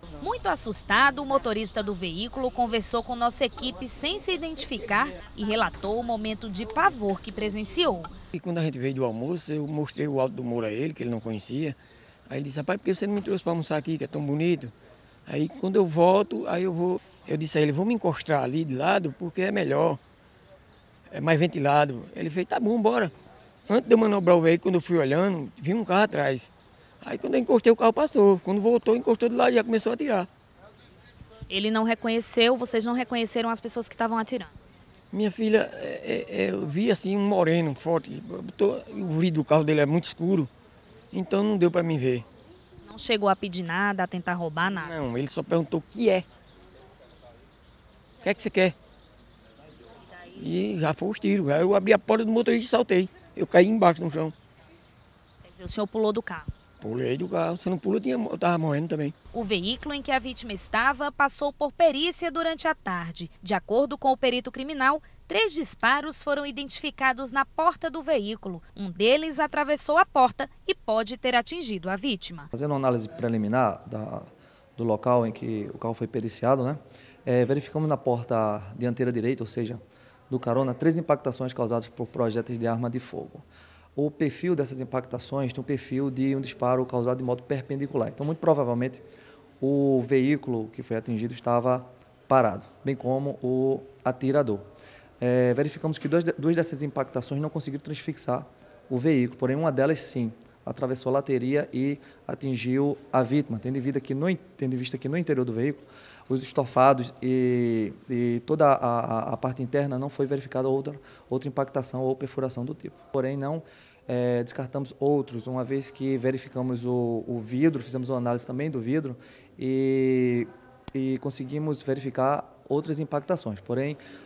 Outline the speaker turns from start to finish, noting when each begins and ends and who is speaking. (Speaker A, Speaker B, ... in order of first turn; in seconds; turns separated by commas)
Speaker A: 0.2-8.1, Speaker B: 8.3-11.8, Speaker B: 12.3-14.7, Speaker B: 15.3-20.0, Speaker B: 21.1-23.1, Speaker B: 23.7-26.5, Speaker B: 27.0-30.3, Speaker A: 31.5-34.5, Speaker B: 35.1-40.5, Speaker B: 41.1-42.2, Speaker A: 42.8-44.9, Speaker B: 44.6-46.2, Speaker B: 48.2-48.8, Speaker B: 50.3-54.3, Speaker A: 55.4-56.5, Speaker B: 56.8-59.1, Speaker A: 59.3-72.5, Speaker C: 72.5-89.0, Speaker C: 89.6-94.6, Speaker C: 95.2-124.0